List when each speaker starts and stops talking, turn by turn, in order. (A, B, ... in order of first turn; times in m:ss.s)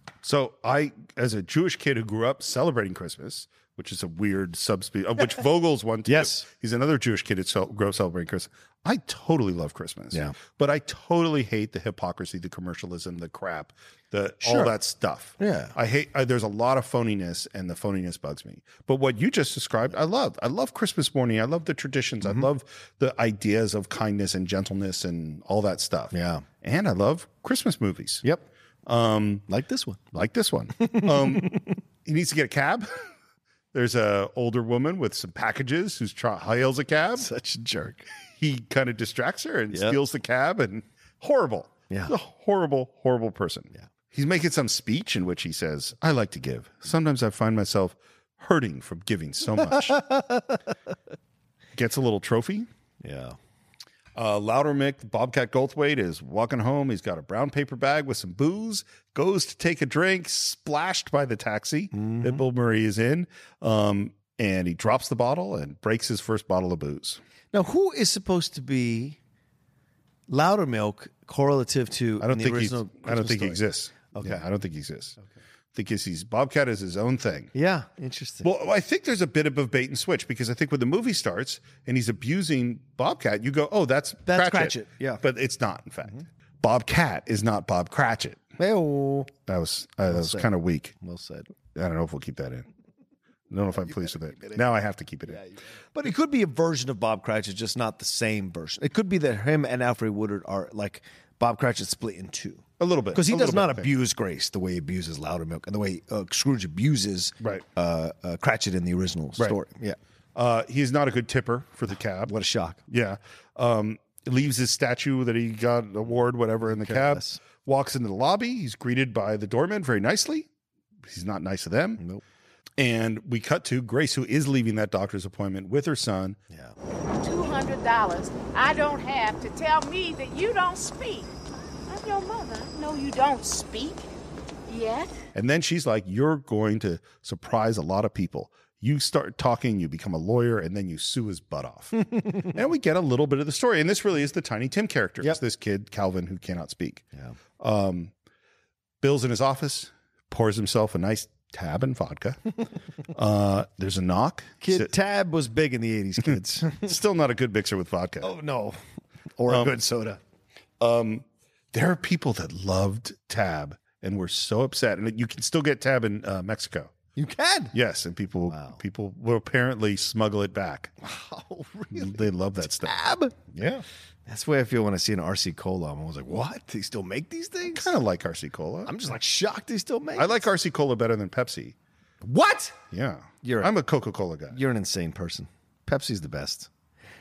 0:00.2-0:28.2 A
0:06.1-0:06.5 B
0:14.4-0:14.8 B
0:15.4-0:15.8 B
0:26.1-0:26.4 B
0:28.8-0:29.4 A
0:29.5-0:30.0 B
0:30.1-0:32.9 A
0:30.8-0:31.8 B
0:33.7-0:37.3 A
0:37.2-0:38.1 B
0:38.3-0:50.0 A
0:39.7-0:40.0 B
0:49.7-0:50.6 B
0:51.7-0:52.7 A
0:53.0-0:53.4 B
0:54.2-1:07.2 A
1:01.9-1:02.4 B
1:07.5-1:09.2 B
1:10.3-1:14.4 B
1:12.2-1:15.2 A
1:15.7-1:17.5 A
1:17.5-1:18.5 B
1:18.4-1:28.4 A
1:24.2-1:25.2 B
1:28.6-1:29.3 B
1:29.5-1:30.9 A
1:30.1-1:31.5 B
1:31.7-1:32.7 A
1:33.5-1:35.4 A
1:33.8-1:34.6 B
1:35.3-1:50.0 B
1:42.8-1:43.9 A
1:50.3-1:52.3 A
1:52.2-1:52.8 B
1:52.9-2:00.5 A
1:56.6-1:57.4 B
2:01.0-2:02.0 A
2:02.8-2:06.4 A
2:07.2-2:11.3 C
2:11.9-2:14.0 C
2:14.7-2:15.1 C
2:15.3-2:27.0 A
2:22.0-2:22.6 B
2:27.6-2:28.1 A
2:29.0-2:32.4 A
2:33.1-2:34.9 A
2:34.6-2:36.9 B
2:36.3-2:38.3 A
2:38.2-2:38.8 B
2:39.4-2:40.2 B
2:39.5-2:39.8 A
2:40.8-2:46.9 A
2:47.2-2:47.8 B
2:47.7-2:50.9 A
2:48.5-2:48.8 B
2:51.0-2:53.5 B
2:51.9-2:52.9 A
2:53.5-2:53.8 A
2:54.2-2:57.9 B
2:57.7-2:59.0 A
2:58.8-3:00.5 B
3:00.2-3:01.7 A
3:02.2-3:02.8 B
3:02.9-3:04.6 A
3:03.4-3:03.7 B
3:04.5-3:06.7 B